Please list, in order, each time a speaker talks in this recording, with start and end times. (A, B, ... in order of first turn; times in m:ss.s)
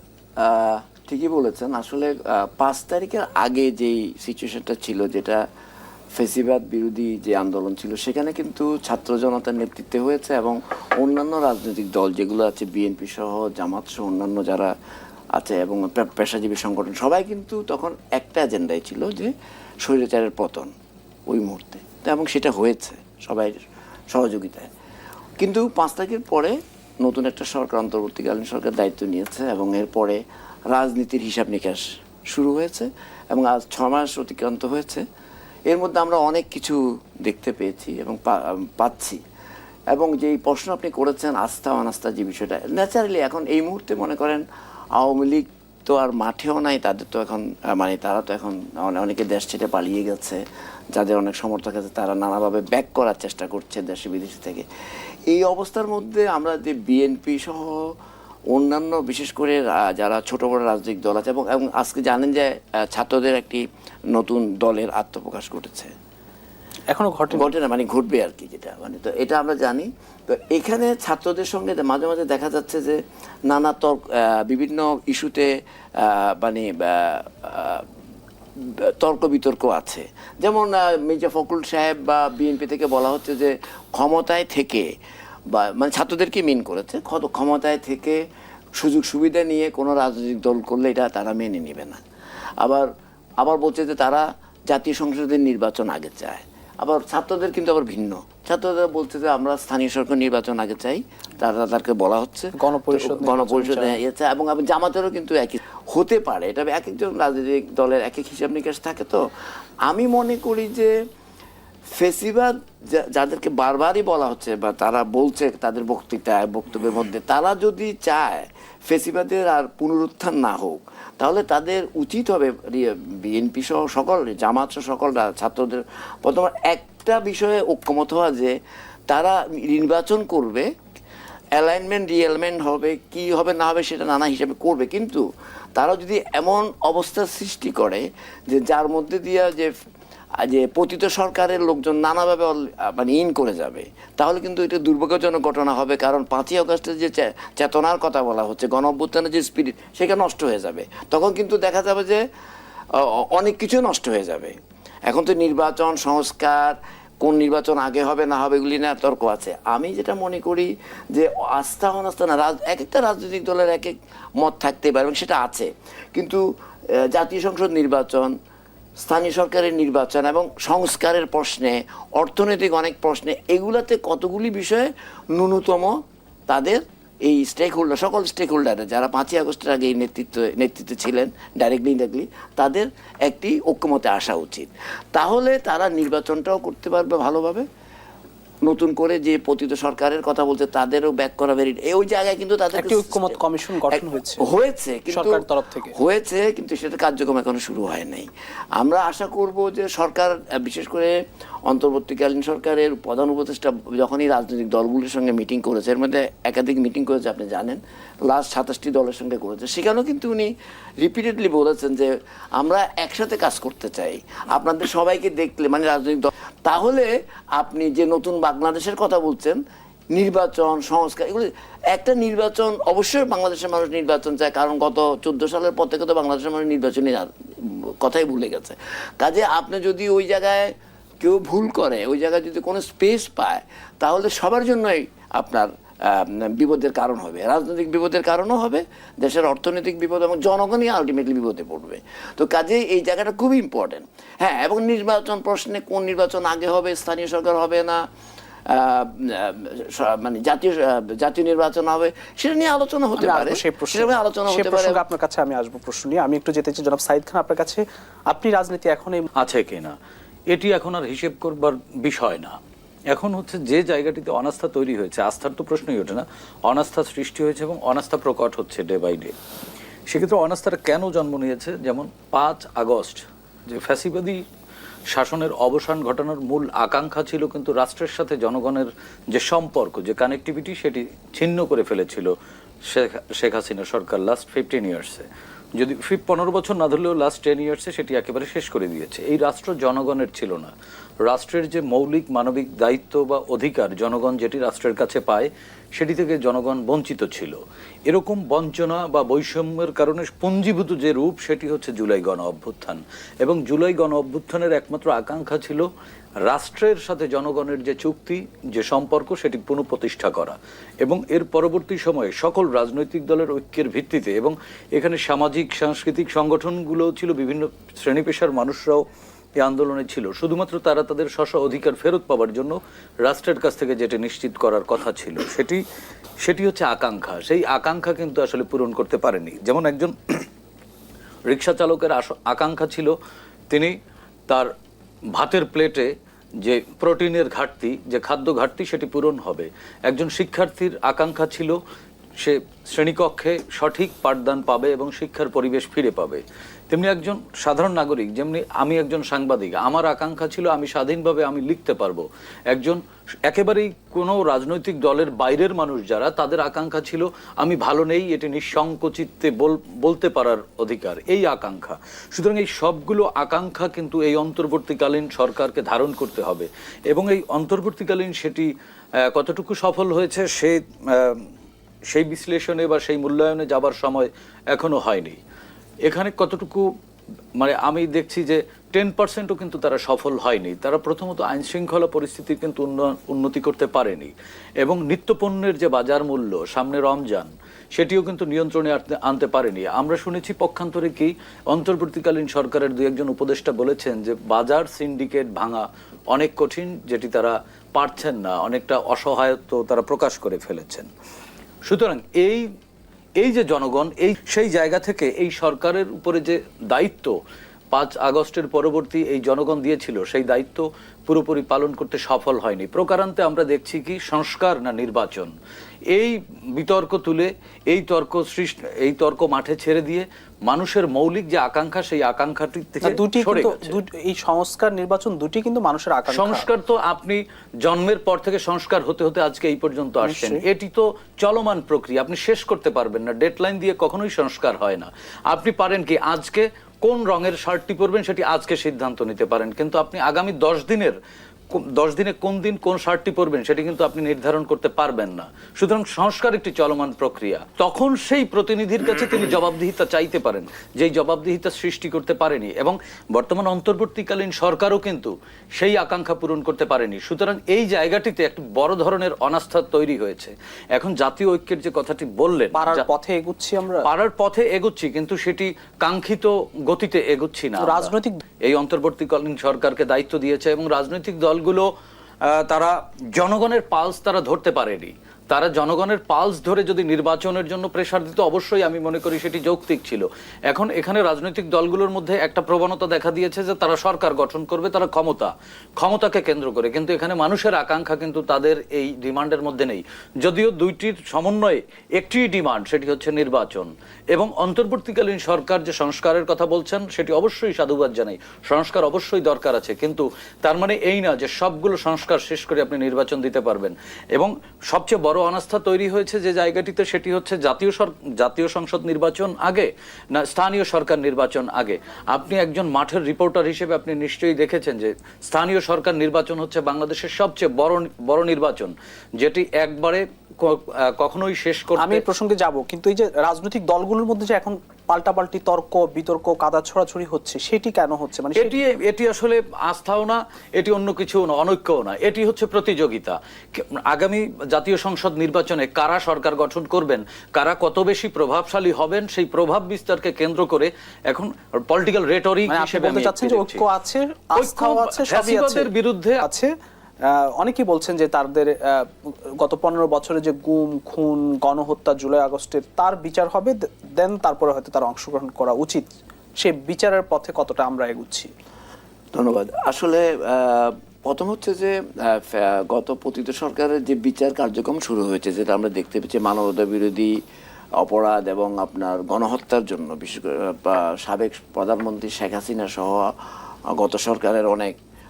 0:00.4-0:05.4 A
0:06.1-0:14.7 A
0:15.4-0:19.3 A
0:19.8-0:20.7 A
0:21.3-0:23.6 A
0:24.1-0:24.7 A
0:25.4-0:35.0 A
0:35.7-0:39.2 A
0:39.9-0:44.4 A
0:45.0-0:50.4 A
0:50.9-0:54.6 A
0:55.3-0:57.8 A
0:58.5-1:05.9 A
1:06.9-1:07.5 B
1:07.3-1:17.8 A
1:18.6-1:24.8 A
1:25.5-1:28.2 A
1:28.8-1:32.0 A
1:32.6-1:32.9 A
1:33.4-1:49.2 A
1:42.6-1:44.0 B
1:49.8-1:50.9 A
1:52.0-2:08.5 A
2:09.1-2:10.6 A
2:11.5-2:15.2 A
2:15.8-2:19.7 A
2:20.4-2:32.2 A
2:33.0-2:34.6 A
2:35.1-2:46.4 A
2:47.0-2:48.3 A
2:49.0-2:55.9 A
2:56.5-3:07.6 A
3:08.6-3:21.1 A
3:12.8-3:14.4 B
3:15.1-3:15.9 B
3:21.7-3:39.6 A
3:40.1-4:08.0 A
4:08.7-4:15.0 A
4:13.2-4:19.3 B
4:19.4-4:20.0 C
4:20.5-4:22.6 C
4:23.1-4:29.3 C
4:30.1-4:34.4 C
4:35.1-4:42.3 C
4:42.9-4:50.7 C
4:51.2-4:57.6 C
4:58.1-5:05.8 C
5:06.4-5:19.0 C
5:19.6-5:25.8 C
5:26.4-5:30.4 C
5:31.5-5:33.1 C
5:35.3-5:36.1 C
5:36.6-5:41.8 C
5:42.4-6:08.7 C
6:09.3-6:11.5 C
6:12.1-6:15.4 C
6:16.0-6:16.8 C
6:17.6-6:41.1 C
6:41.9-6:42.6 C
6:43.4-6:47.3 C
6:47.9-6:55.5 C
6:56.1-7:03.9 C
7:03.0-7:06.7 B
7:06.3-7:21.2 C
7:10.2-7:10.6 B
7:21.7-7:43.0 C
7:42.7-7:44.0 B
7:44.0-7:51.9 C
7:47.8-7:48.4 B
7:52.5-8:42.2 C
8:42.0-8:48.8 B
8:48.6-9:03.8 C
9:02.7-9:05.9 B
9:04.5-9:06.4 C
9:06.4-9:06.7 B
9:07.3-9:09.1 B
9:09.6-9:16.0 B
9:16.6-9:18.5 B
9:19.3-9:27.3 A
9:28.0-9:33.3 A
9:33.9-9:34.9 A